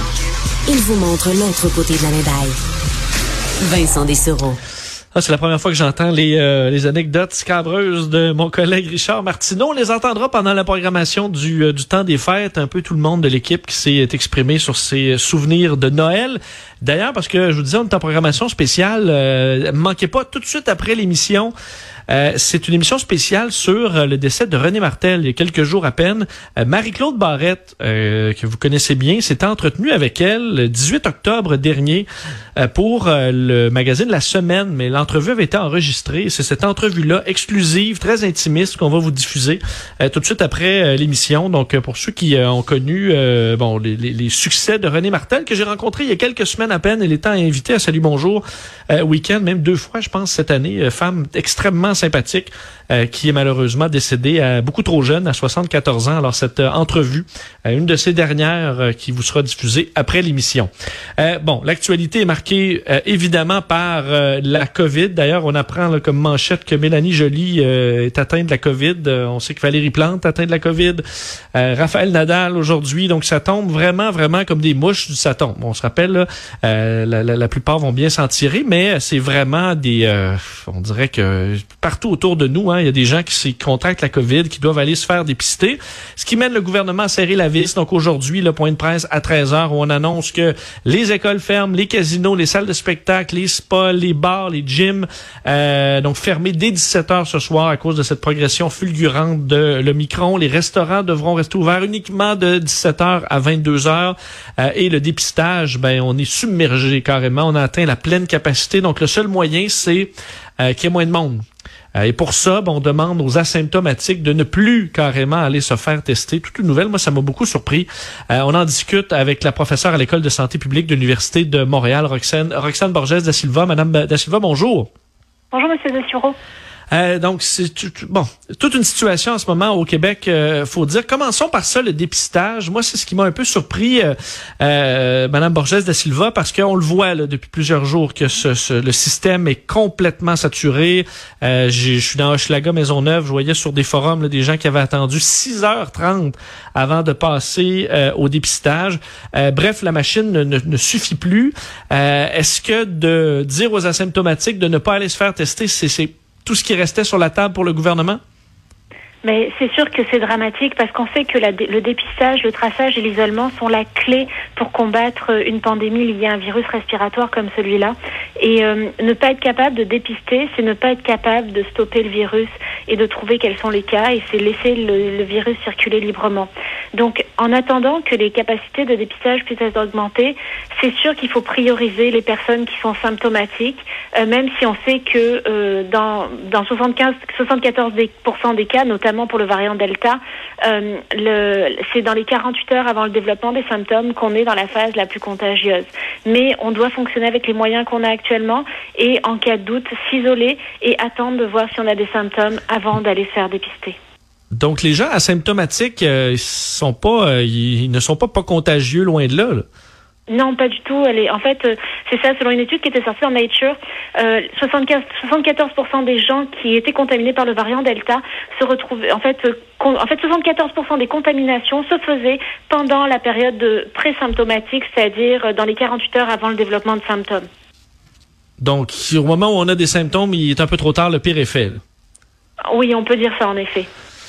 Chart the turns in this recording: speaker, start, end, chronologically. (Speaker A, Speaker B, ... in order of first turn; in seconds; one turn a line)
Speaker A: 0.7-2.6
Speaker A: 3.6-4.6
Speaker B: 5.1-21.5
Speaker B: 22.1-71.0
Speaker B: 71.5-111.4
Speaker B: 112.0-124.9
Speaker C: 125.5-126.3
Speaker B: 126.9-158.2
Speaker C: 159.2-203.9
Speaker B: 204.5-209.6
Speaker C: 210.3-227.4
Speaker B: 228.6-231.8
Speaker C: 232.7-233.9